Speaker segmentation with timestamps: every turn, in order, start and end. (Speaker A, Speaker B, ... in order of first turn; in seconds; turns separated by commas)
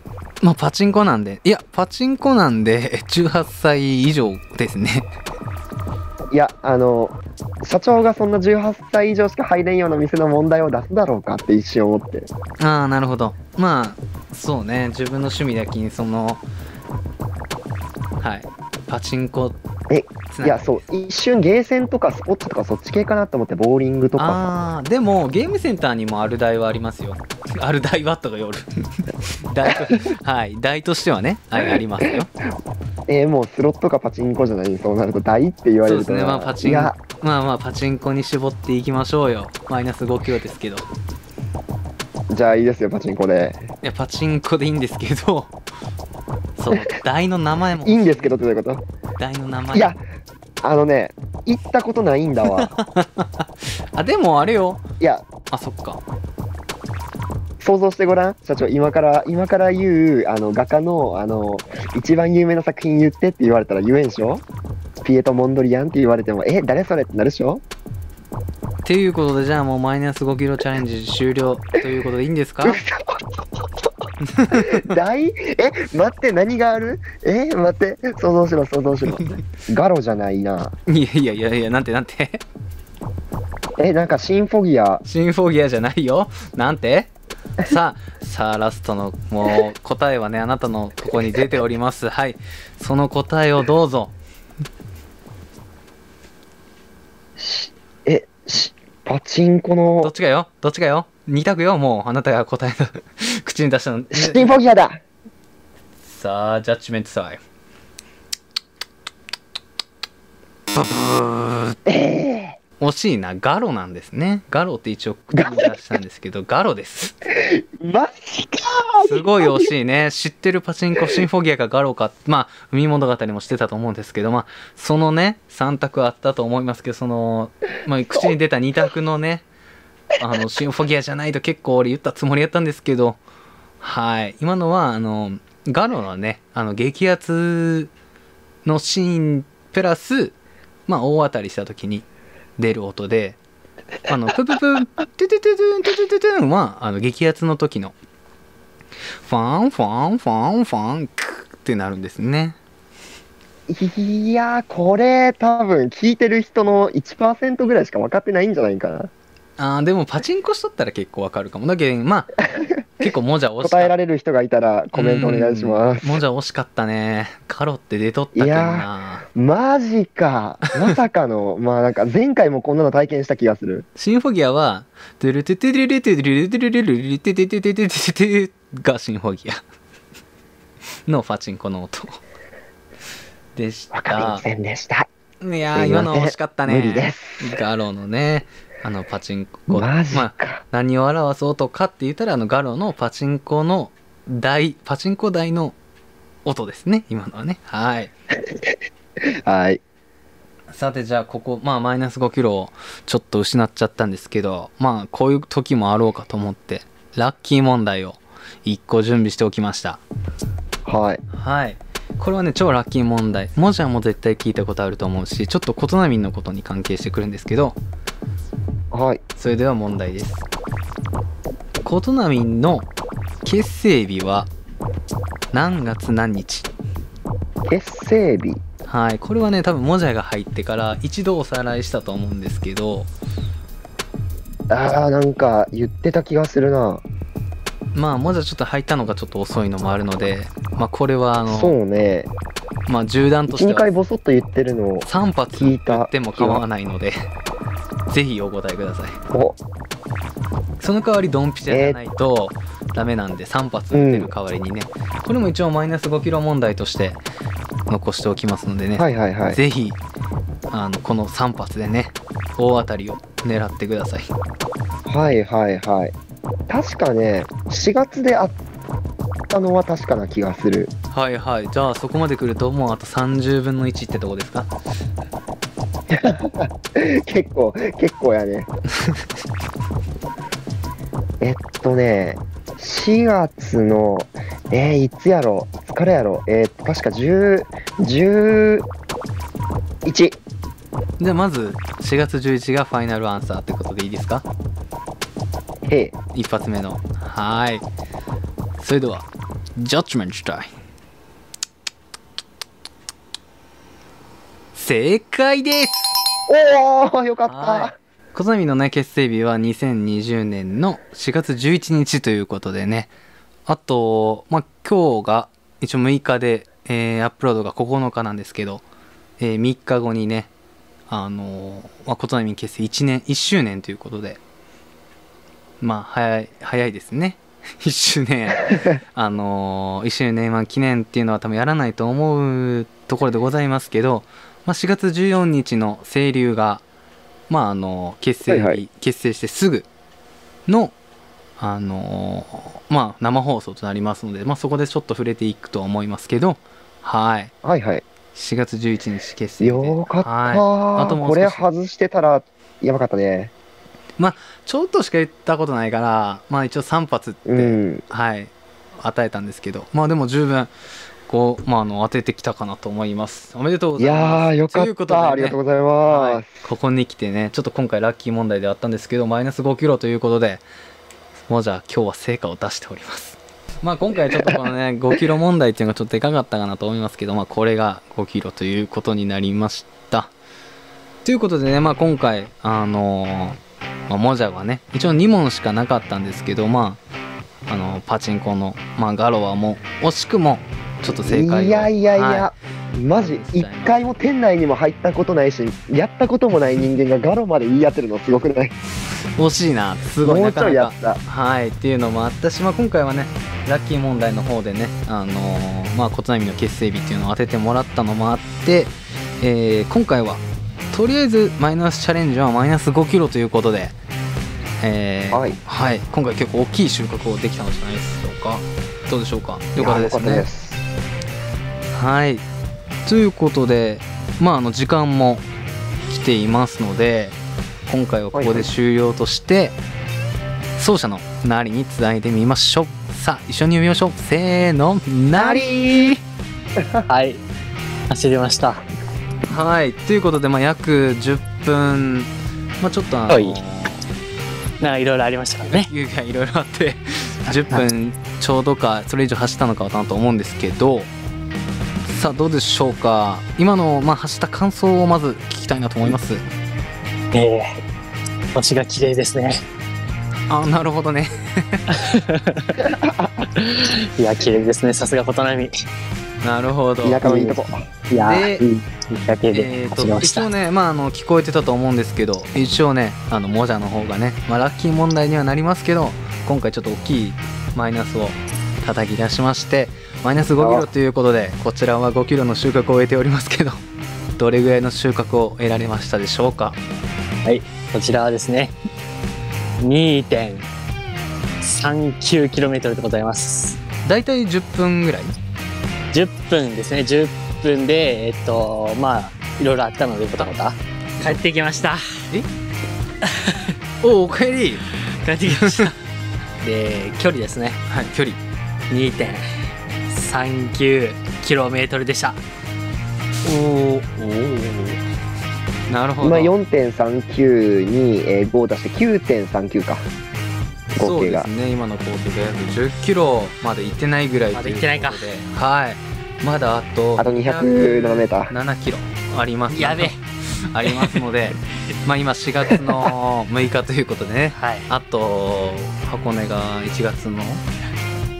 Speaker A: 0.4-5.1, Speaker B: 6.3-12.3, Speaker A: 12.6-16.4, Speaker A: 18.2-19.6, Speaker B: 19.9-24.4, Speaker A: 20.3-20.8, Speaker A: 24.2-28.7, Speaker A: 29.4-32.3, Speaker B: 33.1-37.0, Speaker A: 35.8-40.9, Speaker B: 42.3-43.6, Speaker A: 43.8-45.5, Speaker A: 46.6-48.4, Speaker B: 47.8-48.8, Speaker A: 49.2-50.0, Speaker B: 49.7-50.0, Speaker B: 50.6-52.7, Speaker A: 52.5-54.8, Speaker B: 55.0-55.2, Speaker A: 55.5-56.0, Speaker B: 57.6-64.4, Speaker B: 65.0-67.6, Speaker A: 68.8-72.8, Speaker B: 72.6-73.5, Speaker A: 74.3-74.9, Speaker B: 74.5-80.7, Speaker A: 80.9-82.4, Speaker B: 83.8-85.0, Speaker A: 85.0-94.1, Speaker B: 97.4-100.1, Speaker A: 100.0-104.5, Speaker B: 104.1-105.0, Speaker A: 106.0-107.4, Speaker A: 110.7-111.8, Speaker B: 111.8-112.6, Speaker A: 112.8-117.2, Speaker B: 115.4-115.7, Speaker B: 117.3-119.7, Speaker A: 119.0-129.4, Speaker A: 130.2-133.2, Speaker A: 133.8-137.9, Speaker A: 138.6-140.3, Speaker A: 140.9-142.0, Speaker A: 142.6-143.4, Speaker A: 144.1-147.9, Speaker A: 149.2-152.6, Speaker B: 153.7-159.1, Speaker A: 159.6-162.3, Speaker A: 163.0-163.9, Speaker B: 163.6-166.2, Speaker A: 164.9-169.2, Speaker B: 168.3-173.8, Speaker A: 174.0-179.6, Speaker A: 181.1-182.2, Speaker A: 183.6-184.4, Speaker B: 183.9-185.1, Speaker A: 185.4-195.7, Speaker B: 185.7-187.5, Speaker B: 189.7-190.6, Speaker A: 196.4-198.1, Speaker B: 199.3-199.8, Speaker A: 200.7-210.0, Speaker B: 210.8-211.2, Speaker A: 211.3-217.8, Speaker B: 218.9-219.2, Speaker A: 219.4-220.4, Speaker A: 221.8-222.9, Speaker A: 223.4-224.5, Speaker A: 225.5-226.7, Speaker B: 227.6-228.6, Speaker A: 228.8-233.1, Speaker B: 234.7-237.0, Speaker A: 237.9-241.8, Speaker B: 241.4-242.3, Speaker A: 242.9-243.9, Speaker B: 243.5-246.6, Speaker A: 245.0-247.2, Speaker A: 248.1-249.2, Speaker B: 249.3-249.6, Speaker A: 250.8-257.2, Speaker B: 251.7-252.0, Speaker B: 253.9-254.3, Speaker A: 257.9-260.0, Speaker B: 259.0-259.6, Speaker A: 260.7-264.3, Speaker B: 265.1-266.1, Speaker B: 266.7-268.6, Speaker B: 269.5-270.9, Speaker A: 271.1-274.7, Speaker B: 276.1-278.7, Speaker B: 281.4-288.9, Speaker B: 290.0-290.4, Speaker A: 291.2-294.4, Speaker B: 295.9-296.1, Speaker A: 296.3-297.8, Speaker A: 298.8-300.7, Speaker A: 304.7-306.1, Speaker B: 306.5-307.9, Speaker A: 307.5-313.1, Speaker A: 313.7-318.8, Speaker A: 319.4-320.5, Speaker A: 321.1-324.4, Speaker A: 325.8-336.8, Speaker A: 337.5-339.9, Speaker B: 338.5-338.8, Speaker A: 340.7-340.9, Speaker A: 341.6-347.5, Speaker B: 347.6-348.0, Speaker A: 348.3-351.6, Speaker B: 349.6-353.5, Speaker A: 354.2-360.7, Speaker B: 357.4-358.0, Speaker A: 361.3-370.6, Speaker B: 364.0-366.7, Speaker A: 371.5-380.3, Speaker B: 374.3-374.5, Speaker A: 381.2-383.6, Speaker A: 384.1-387.0, Speaker A: 387.7-392.5, Speaker B: 391.1-398.7, Speaker A: 393.1-393.9, Speaker A: 399.4-413.9, Speaker B: 400.2-401.2, Speaker A: 414.8-420.5, Speaker B: 415.3-415.6, Speaker B: 419.8-420.8, Speaker A: 421.9-422.4, Speaker A: 423.1-425.4, Speaker A: 426.1-429.8, Speaker B: 428.3-428.7, Speaker A: 430.8-436.2, Speaker B: 435.3-435.7, Speaker C: 437.1-437.4, Speaker C: 438.1-438.8, Speaker A: 439.5-444.0, Speaker C: 443.3-443.6, Speaker C: 444.8-445.9, Speaker A: 445.6-451.1, Speaker A: 452.0-456.4, Speaker C: 457.3-457.8, Speaker C: 458.5-459.6, Speaker A: 460.5-461.9, Speaker C: 461.9-462.8, Speaker B: 462.8-463.4, Speaker C: 463.5-465.7, Speaker A: 466.4-467.2, Speaker B: 467.0-467.8, Speaker C: 467.2-470.5, Speaker A: 468.2-468.6, Speaker A: 469.5-483.8, Speaker B: 480.6-480.9, Speaker A: 484.4-486.8, Speaker C: 487.4-488.7, Speaker C: 489.8-490.7, Speaker C: 491.6-493.8, Speaker A: 494.0-495.3, Speaker C: 496.1-502.0, Speaker C: 503.2-503.7, Speaker A: 504.0-504.9, Speaker C: 505.2-505.9, Speaker A: 505.5-505.9, Speaker C: 506.6-507.8, Speaker A: 507.9-508.4, Speaker C: 508.9-509.4, Speaker C: 510.1-512.4, Speaker A: 513.4-515.0, Speaker A: 515.9-516.5, Speaker B: 516.2-520.0, Speaker A: 520.9-537.6, Speaker B: 521.0-521.5, Speaker C: 524.5-525.2, Speaker B: 527.2-528.5, Speaker C: 529.7-530.1, Speaker C: 534.5-534.9